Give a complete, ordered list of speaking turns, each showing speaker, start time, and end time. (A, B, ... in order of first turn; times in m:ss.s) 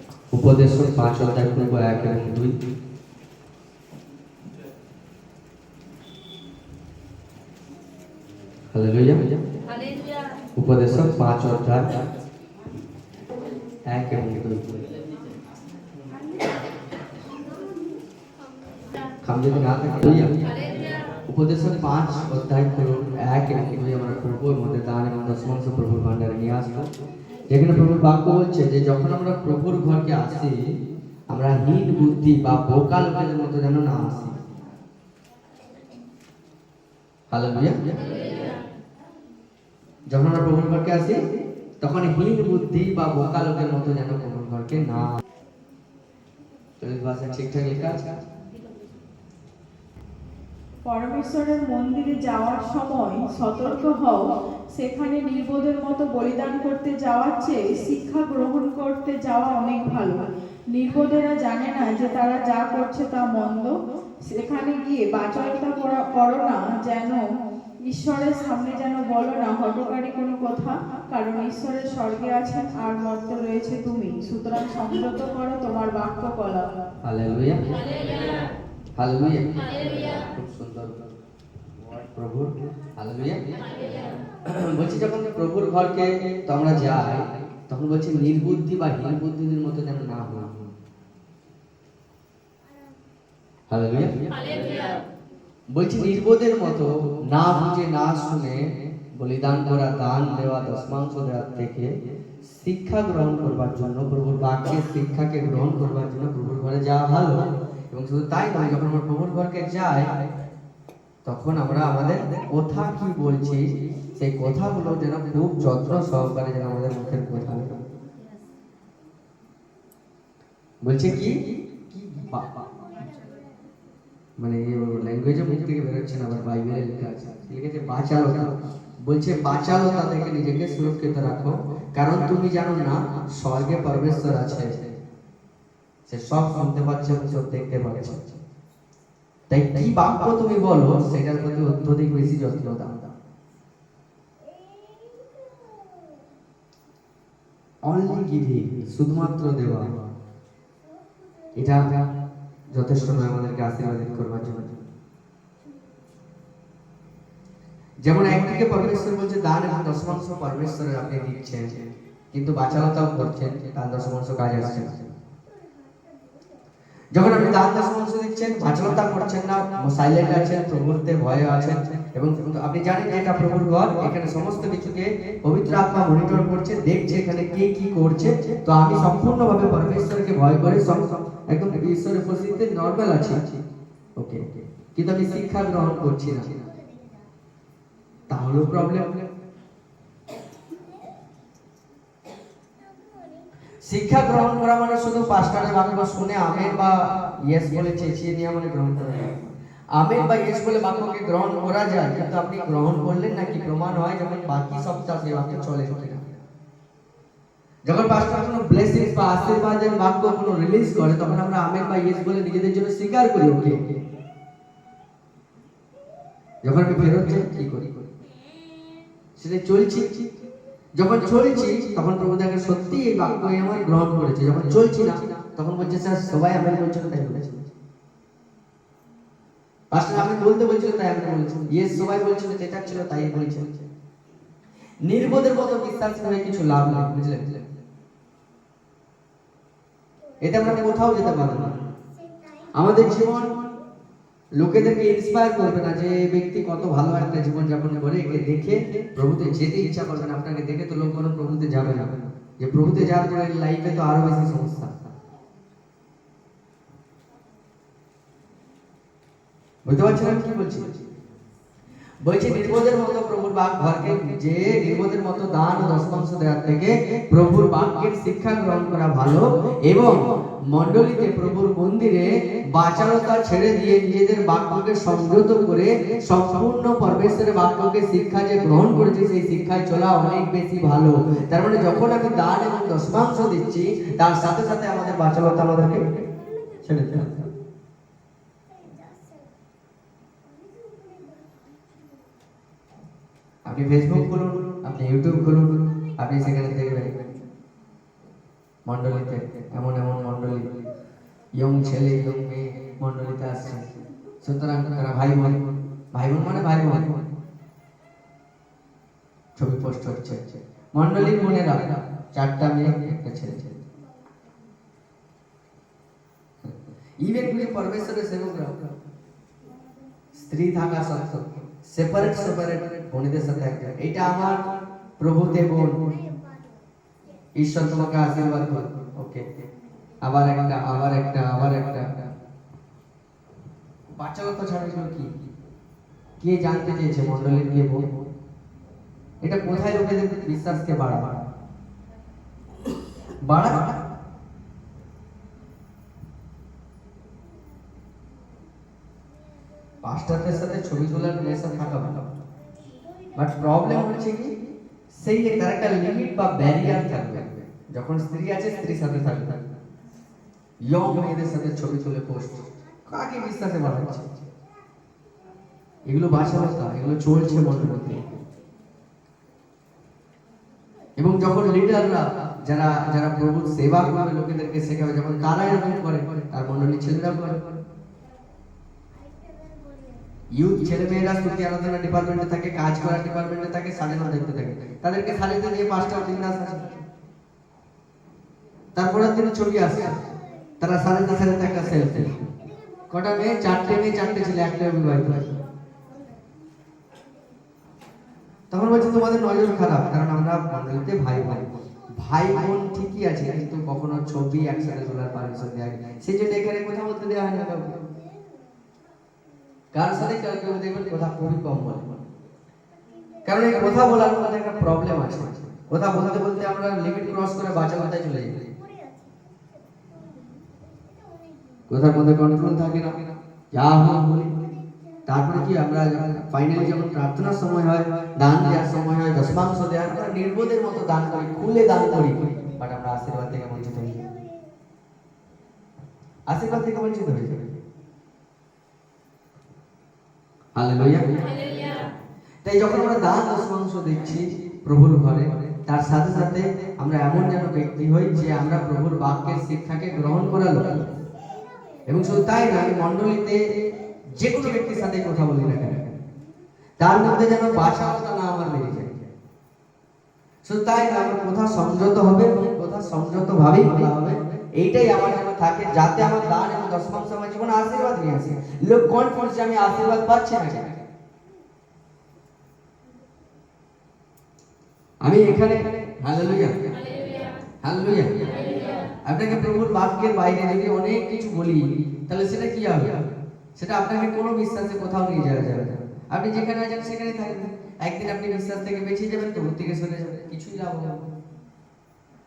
0:00.3-0:02.6 A
0:08.7-0:09.4 A
0:10.6-0:12.0 A
0:13.9-0:14.8 A
0:19.2-0:20.4 A
0:21.3-0:26.9 A
0:27.5-0:30.6 A
0:31.3-0:34.4 A
0:37.3-0:38.0 A
0:40.1-0:41.2 A
0:41.8-0:45.2 A
0:46.8-0:48.0 A
0:50.8-1:03.8 B
1:04.3-1:07.2 B
1:07.8-1:16.7 B
1:17.0-1:17.8 A
1:19.0-1:21.0 A
1:22.1-1:23.5 A
1:23.5-1:24.2 C
1:24.4-1:30.5 A
1:32.6-1:33.0 C
1:33.7-1:34.4 A
1:34.6-1:35.0 C
1:35.7-1:41.9 A
1:42.5-1:50.1 A
1:51.2-1:57.8 A
1:58.3-1:58.9 C
2:00.8-2:02.6 A
2:02.2-2:04.0 C
2:04.4-2:14.9 A
2:16.1-2:18.4 A
2:19.5-2:23.1 A
2:24.4-2:26.3 C
2:27.8-2:29.9 A
2:30.8-2:31.9 C
2:31.6-2:32.0 A
2:32.7-2:34.8 A
2:35.6-2:36.1 C
2:38.0-2:45.1 A
2:45.4-2:46.7 C
2:47.1-3:03.5 A
3:04.2-3:06.5 A
3:06.5-3:07.3 C
3:08.3-3:09.2 A
3:10.7-3:11.1 C
3:12.8-3:13.5 C
3:13.8-3:19.4 A
3:20.0-3:26.4 A
3:27.8-3:34.0 A
3:36.6-3:38.0 A
3:38.4-3:39.1 C
3:39.4-3:40.3 A
3:40.9-3:47.6 A
3:49.9-3:53.9 A
3:55.0-3:57.6 A
4:00.4-4:01.8 A
4:02.0-4:03.6 C
4:02.7-4:03.6 A
4:04.6-4:15.0 A
4:19.8-4:21.0 A
4:22.2-4:46.1 A
4:46.2-4:47.6 C
4:46.8-4:47.5 A
4:48.7-4:49.6 C
4:50.4-4:52.5 C
4:53.6-4:57.2 A
4:58.8-5:00.7 A
5:01.6-5:05.6 A
5:06.1-5:07.2 A
5:09.6-5:13.8 A
5:16.6-5:18.8 A
5:20.3-5:24.7 A
5:25.2-5:26.0 A
5:26.0-5:26.8 C
5:27.5-5:29.4 A
5:30.2-5:32.3 A
5:34.2-5:35.3 A
5:36.4-5:38.0 A
5:39.4-5:41.4 A
5:43.4-5:43.9 A
5:50.0-5:52.3 A
5:52.7-5:53.5 C
5:53.4-5:54.5 A
5:55.1-5:59.7 A
6:00.8-6:04.4 A
6:06.0-6:08.3 A
6:11.2-6:17.8 A
6:19.1-6:20.5 C
6:20.5-6:26.9 A
6:29.0-6:30.2 A
6:30.2-6:30.6 C
6:30.8-6:32.3 A
6:32.2-6:33.8 C
6:33.1-6:35.6 A
6:35.8-6:37.5 C
6:38.7-6:48.0 A
6:48.0-6:49.1 C
6:49.9-6:52.2 A
6:52.9-6:53.8 C
6:53.4-6:58.6 A
6:58.6-7:01.9 C
7:01.9-7:03.2 A
7:03.7-7:04.6 A
7:04.6-7:05.2 C
7:05.2-7:14.2 A
7:14.2-7:14.8 C
7:16.5-7:17.8 A
7:20.8-7:21.4 A
7:22.6-7:31.1 A
7:31.4-7:32.0 C
7:32.0-7:33.6 A
7:34.3-7:36.2 A
7:37.0-7:39.3 A
7:40.6-7:51.0 A
7:55.2-7:57.0 A
7:57.8-8:03.2 A
8:03.8-8:11.2 A